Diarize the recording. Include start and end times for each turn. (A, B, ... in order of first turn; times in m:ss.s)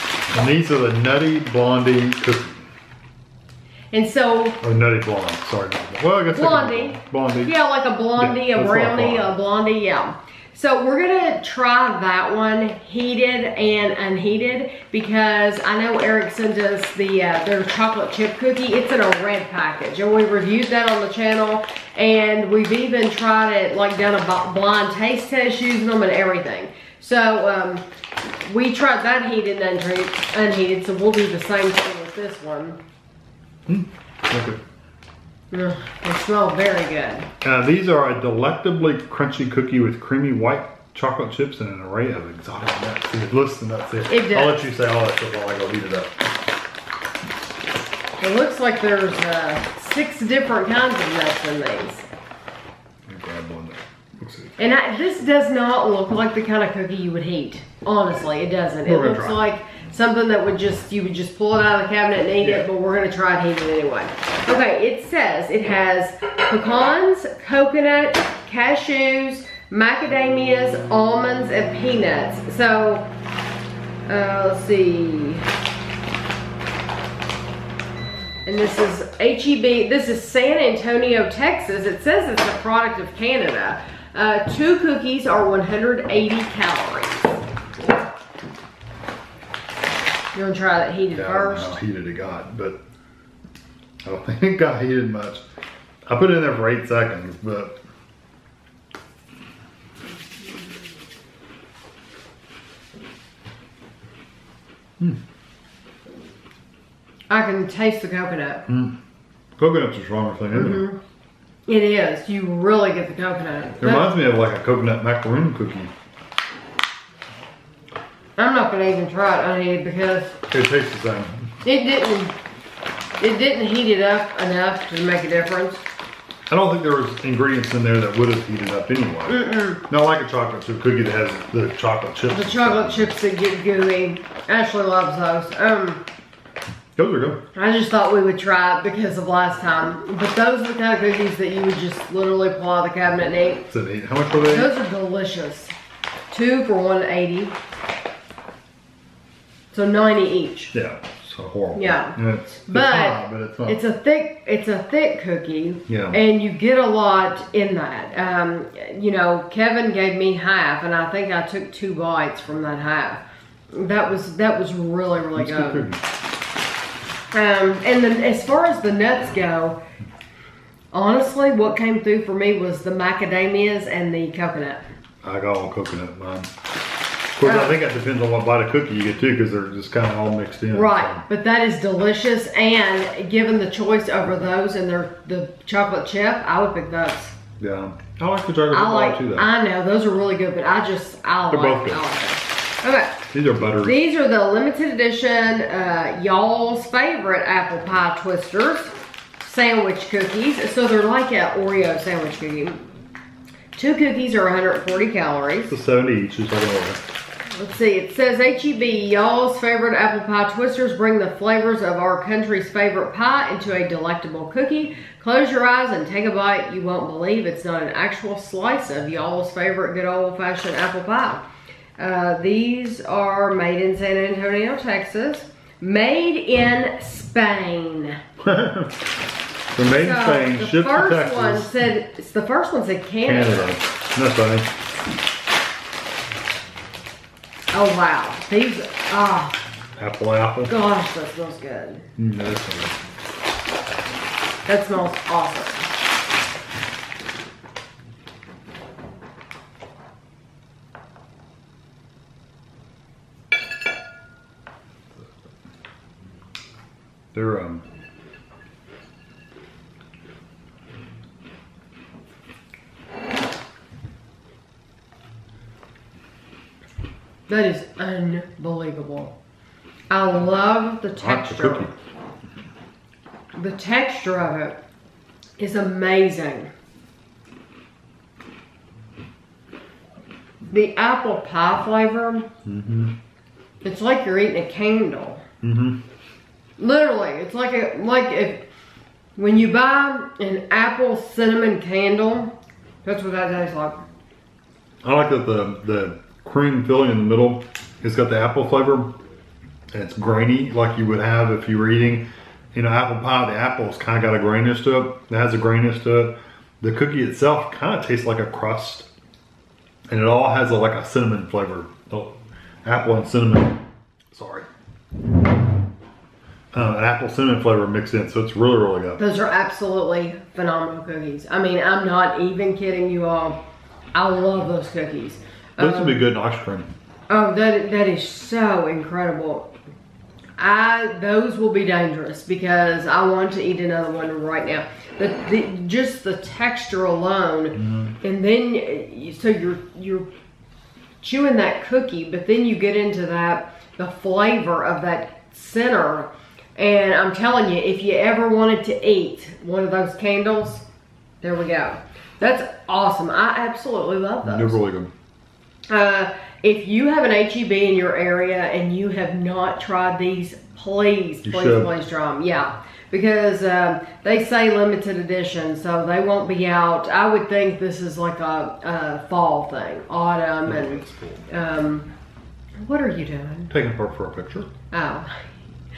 0:00.3-0:02.5 A
0:03.9-0:04.6 B
0:04.6-0:07.5 A
0:06.3-0:27.8 B
0:08.2-0:09.3 A
0:28.4-0:32.8 B
0:33.7-0:34.6 A
0:35.5-0:37.3 B
0:37.4-0:46.1 A
0:44.1-0:44.6 B
0:48.2-0:52.0 B
0:53.1-0:54.7 A
0:54.6-1:13.1 B
0:58.8-0:59.4 A
1:02.4-1:02.7 A
1:14.1-1:15.5 B
1:18.4-1:27.4 B
1:30.3-1:31.8 B
1:31.1-1:32.8 A
1:34.0-1:35.4 A
1:36.1-1:37.8 A
1:47.3-1:48.6 B
1:48.7-1:49.0 A
1:49.6-1:50.8 A
1:50.5-1:51.0 B
1:51.7-1:54.1 B
1:53.8-1:55.9 A
1:58.4-2:00.4 B
2:00.5-2:01.5 A
2:01.6-2:02.3 B
2:03.2-2:05.8 B
2:06.5-2:13.1 A
2:09.3-2:09.8 B
2:12.3-2:16.0 B
2:17.0-2:17.4 A
2:17.5-2:23.6 B
2:23.7-2:24.7 A
2:24.4-2:25.7 B
2:26.3-2:27.5 B
2:29.7-2:30.7 B
2:30.7-2:33.8 A
2:31.7-2:45.9 B
2:35.9-2:36.2 A
2:45.4-2:46.0 A
2:47.3-2:49.8 B
2:50.9-2:54.8 B
2:55.2-2:56.5 A
2:57.4-3:01.2 A
2:57.4-2:57.8 B
3:00.7-3:07.3 B
3:07.6-3:09.5 A
3:08.7-3:13.2 B
3:11.5-3:12.0 A
3:13.3-3:14.0 A
3:13.8-3:22.8 B
3:23.7-3:25.8 B
3:25.7-3:27.0 A
3:27.5-3:41.4 B
3:42.0-3:48.2 B
3:48.4-3:48.9 A
3:49.7-3:51.8 A
3:49.9-3:53.8 B
3:53.2-3:54.7 A
3:57.7-3:59.6 B
4:00.0-4:00.7 A
4:00.7-4:02.1 B
4:02.2-4:03.0 A
4:04.6-4:05.9 B
4:17.3-4:17.8 A
4:27.5-4:29.3 B
4:30.1-4:31.9 B
4:31.2-4:31.9 A
4:33.5-4:34.8 B
4:35.6-4:36.7 B
4:40.7-4:42.5 B
4:42.6-4:43.1 A
4:43.8-4:45.4 B
4:45.6-4:46.0 A
4:46.8-4:48.7 B
4:49.4-4:54.0 B
4:55.0-4:59.1 A
4:59.9-5:09.1 A
5:10.1-5:13.8 A
5:14.3-5:14.6 A
5:16.7-5:19.2 A
5:19.2-5:23.6 B
5:24.1-5:26.2 B
5:25.8-5:26.9 A
5:27.3-5:29.7 B
5:30.6-5:40.3 B
5:37.8-5:38.1 A
5:41.2-5:50.8 B
5:51.4-5:54.8 B
5:54.4-5:55.1 A
5:55.9-6:12.1 B
6:01.4-6:01.9 A
6:10.6-6:11.4 A
6:12.8-6:13.7 B
6:13.7-6:14.7 A
6:14.9-6:15.3 B